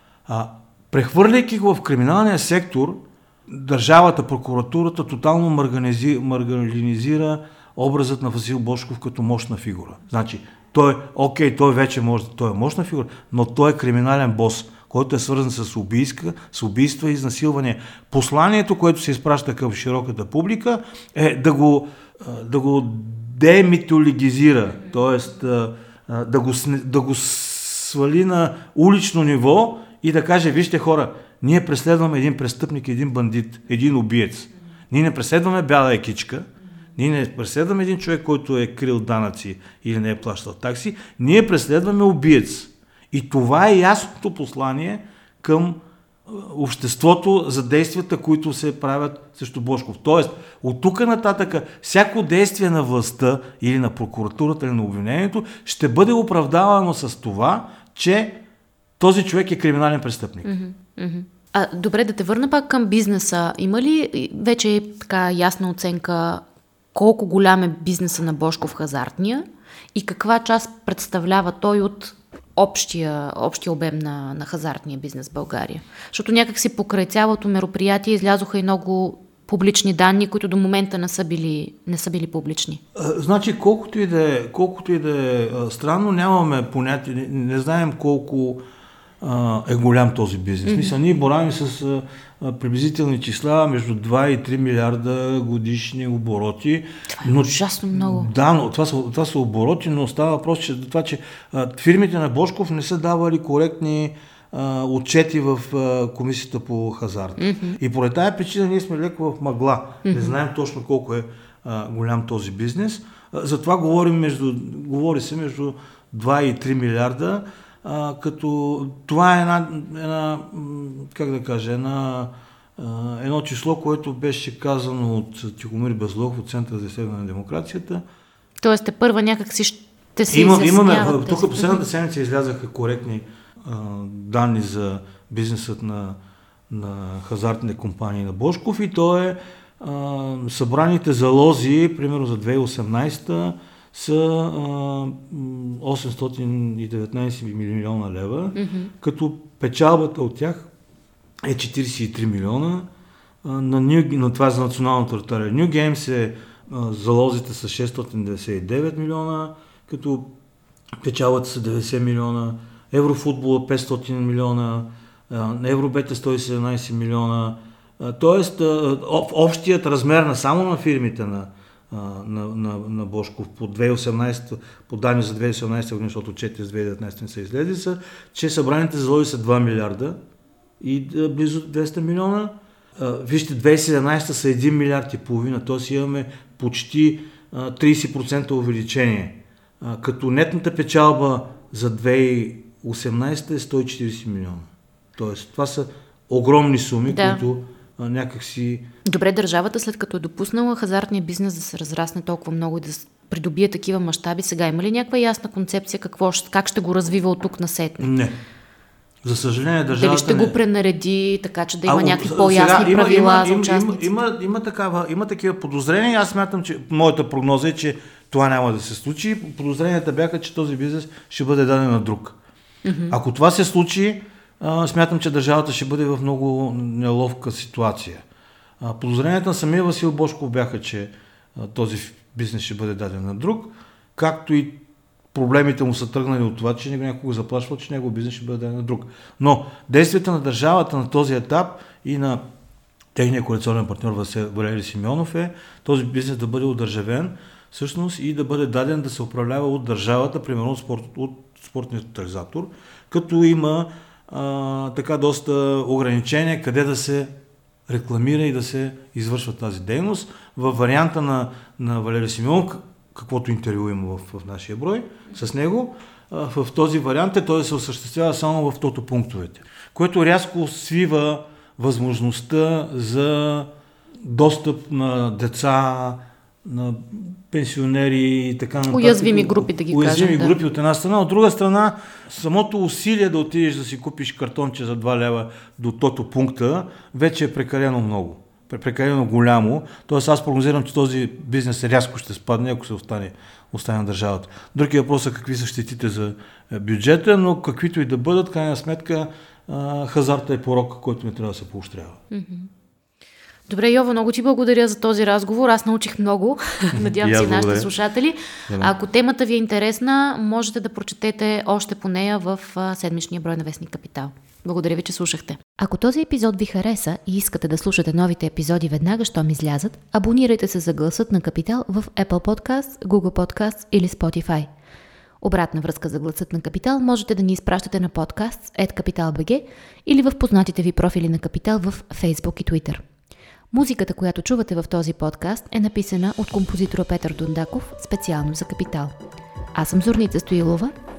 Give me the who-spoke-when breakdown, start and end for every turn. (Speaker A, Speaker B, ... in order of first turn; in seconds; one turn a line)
Speaker A: 0.3-58.4
Speaker A: 59.0-60.5
Speaker B: 60.4-82.8
Speaker A: 82.9-88.6
Speaker A: 89.2-128.0
Speaker B: 90.6-90.9
Speaker B: 97.2-98.3
Speaker B: 107.4-107.8
Speaker B: 110.0-110.4
Speaker B: 128.6-131.8
Speaker A: 130.3-136.2
Speaker A: 136.7-150.7
Speaker B: 148.6-148.9
Speaker A: 151.4-152.9
Speaker A: 153.4-160.3
Speaker A: 161.0-180.2
Speaker A: 180.8-198.9
Speaker B: 197.1-197.4
Speaker B: 199.0-208.1
Speaker A: 208.0-208.3
Speaker A: 209.2-210.6
Speaker B: 209.9-214.1
Speaker A: 211.8-222.3
Speaker B: 222.8-223.1
Speaker A: 223.1-228.2
Speaker A: 228.8-234.8
Speaker A: 235.3-242.4
Speaker A: 243.1-257.3
Speaker A: 257.9-273.7
Speaker A: 274.2-302.2
Speaker B: 278.9-280.6
Speaker B: 302.3-302.7
Speaker B: 303.7-324.7
Speaker A: 306.9-307.9
Speaker B: 325.4-333.0
Speaker B: 333.7-339.1
Speaker B: 339.7-340.9